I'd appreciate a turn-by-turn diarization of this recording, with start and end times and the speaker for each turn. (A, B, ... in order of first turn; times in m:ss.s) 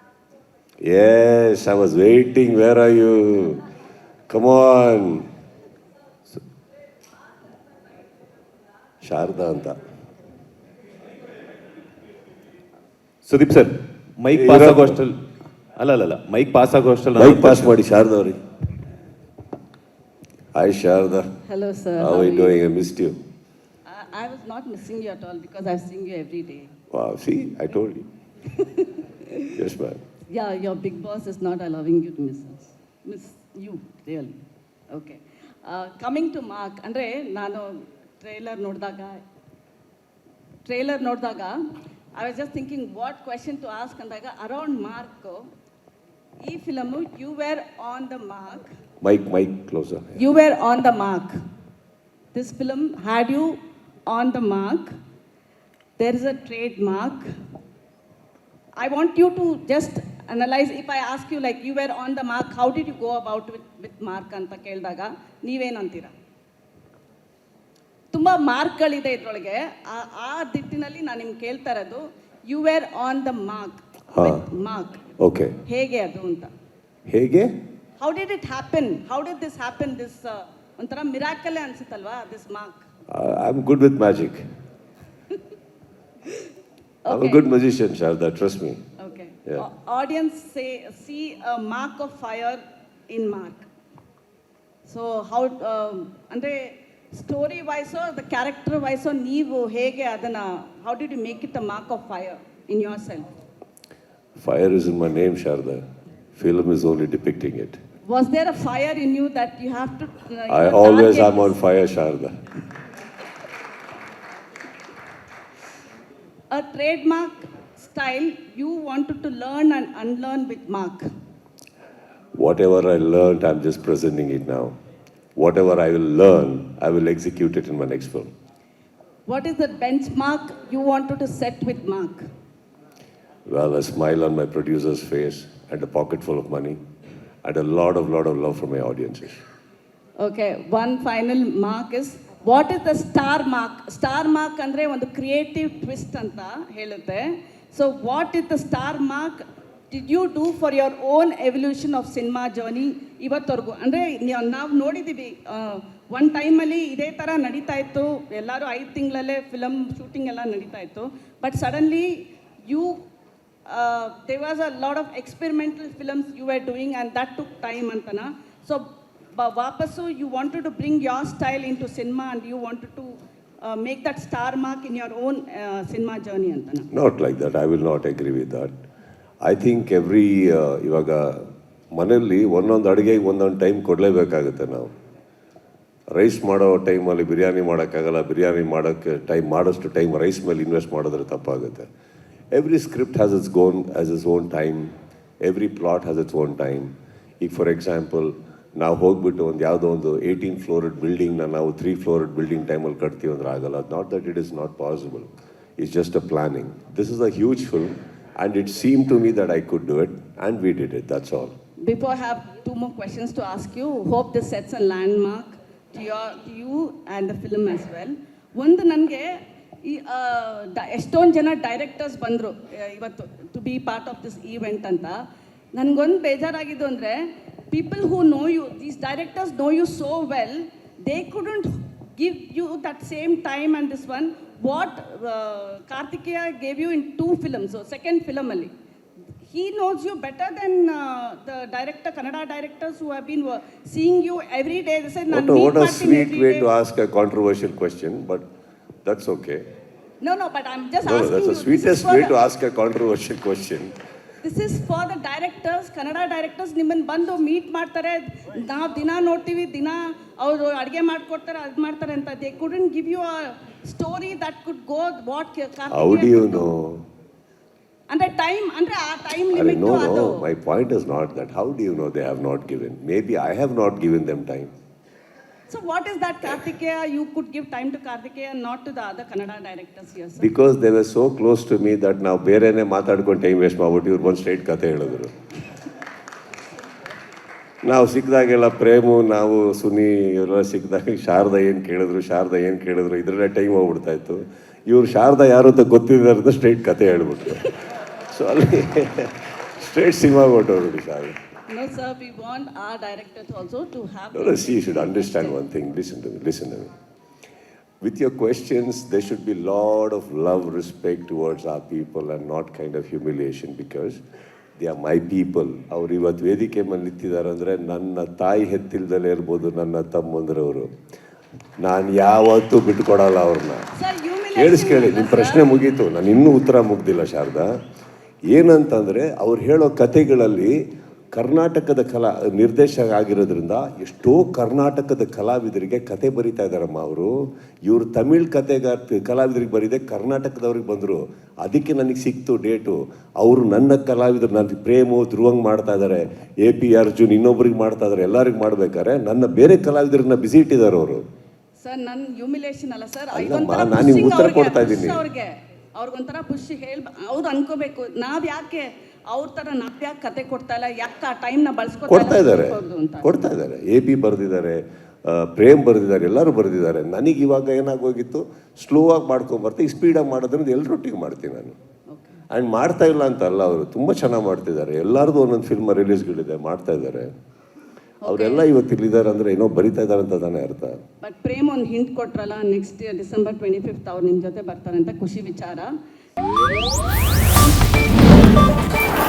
0:00.8-0:03.6 A
0:04.3-0:05.3 A
0:09.0-0:09.8 A
0:13.2-0:15.2 B
0:14.3-0:15.0 A
0:15.8-0:17.7 B
0:17.2-0:18.4 A
0:20.5-0:21.3 A
0:21.4-0:22.6 C
0:22.0-0:23.2 A
0:23.8-0:26.7 C
0:26.9-0:28.0 A
0:28.5-0:29.5 C
0:29.5-0:30.0 A
0:30.3-0:34.4 C
0:34.9-0:39.2 C
0:40.6-0:41.6 C
0:42.1-0:45.5 C
0:46.4-0:48.7 C
0:49.0-0:50.2 A
0:50.2-0:51.4 C
0:52.3-0:54.9 C
0:56.0-0:57.3 C
0:58.8-1:06.1 C
1:08.1-1:15.1 C
1:14.1-1:14.4 A
1:15.2-1:15.6 A
1:15.6-1:16.5 C
1:17.1-1:17.5 A
1:18.0-1:22.8 C
1:23.1-1:24.4 A
1:27.0-1:27.4 C
1:27.1-1:28.8 A
1:29.0-1:33.7 C
1:34.9-1:43.3 C
1:44.4-1:45.8 A
1:46.3-1:47.8 A
1:48.0-1:51.6 C
1:50.5-1:52.4 A
1:56.5-2:01.0 C
2:02.4-2:04.7 A
2:05.4-2:08.3 A
2:09.2-2:12.2 C
2:13.5-2:16.8 A
2:17.4-2:19.4 A
2:20.2-2:43.0 C
2:43.7-2:56.9 C
2:56.9-2:58.7 A
2:59.4-3:04.9 A
3:06.1-3:11.9 A
3:12.5-3:31.5 A
3:31.8-3:45.2 C
3:45.7-3:58.7 C
3:59.4-4:06.7 C
4:05.3-4:08.4 A
4:09.0-4:09.6 A
4:10.2-4:12.4 C
4:11.0-4:13.9 A
4:14.4-4:26.7 C
4:25.9-4:27.0 A
4:28.1-4:30.4 C
4:29.5-4:34.7 A
4:35.7-4:40.5 C
4:40.4-4:45.3 A
4:47.8-4:57.7 A
4:58.3-5:01.4 A
5:01.7-5:05.6 C
5:04.3-5:06.9 A
5:08.0-5:14.2 A
5:14.8-5:20.9 A
5:21.8-5:23.9 A
5:24.0-5:25.7 C
5:24.5-5:27.7 A
5:28.5-5:30.8 A
5:31.3-5:51.2 A
5:51.8-6:03.3 C
5:53.3-5:55.2 A
6:02.1-6:11.7 A
6:12.5-6:17.3 A
6:18.2-6:18.7 C
6:18.2-6:21.0 A
6:21.2-6:25.9 C